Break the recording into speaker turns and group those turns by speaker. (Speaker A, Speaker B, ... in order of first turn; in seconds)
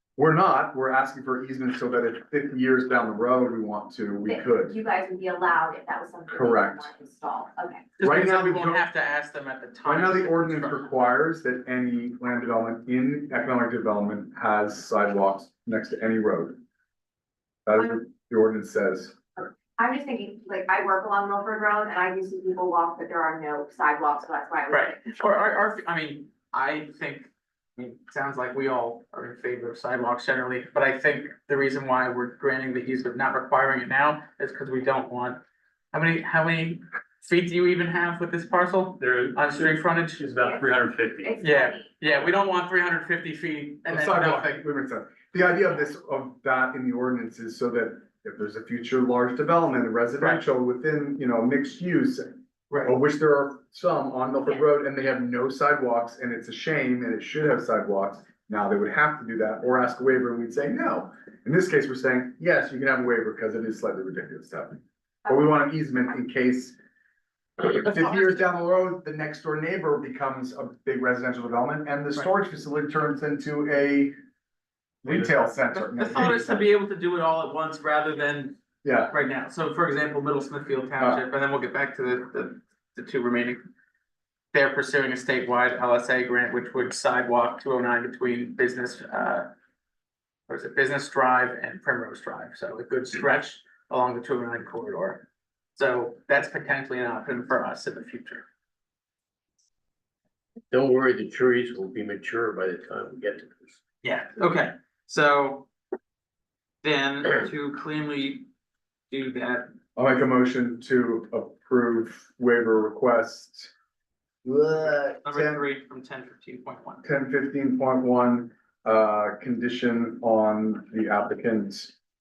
Speaker A: 0.2-4.8, 6.3-6.9, 8.0-8.8, 9.8-16.6, 17.7-19.2, 43.9-66.8, 67.6-74.1, 75.0-76.7, 78.8-79.1, 110.0-113.7, 114.5-115.7, 117.0-122.0
Speaker B: 4.2-7.9, 19.8-25.0, 40.4-40.7, 41.2-42.0
Speaker C: 8.0-10.9, 24.7-35.4, 35.9-40.2, 41.4-44.6, 75.7-83.6, 84.5-89.5, 90.5-98.5, 104.0-105.7, 106.8-108.5, 109.1-109.7, 114.8-117.0
Speaker D: 39.0-41.4
Speaker E: 100.7-103.8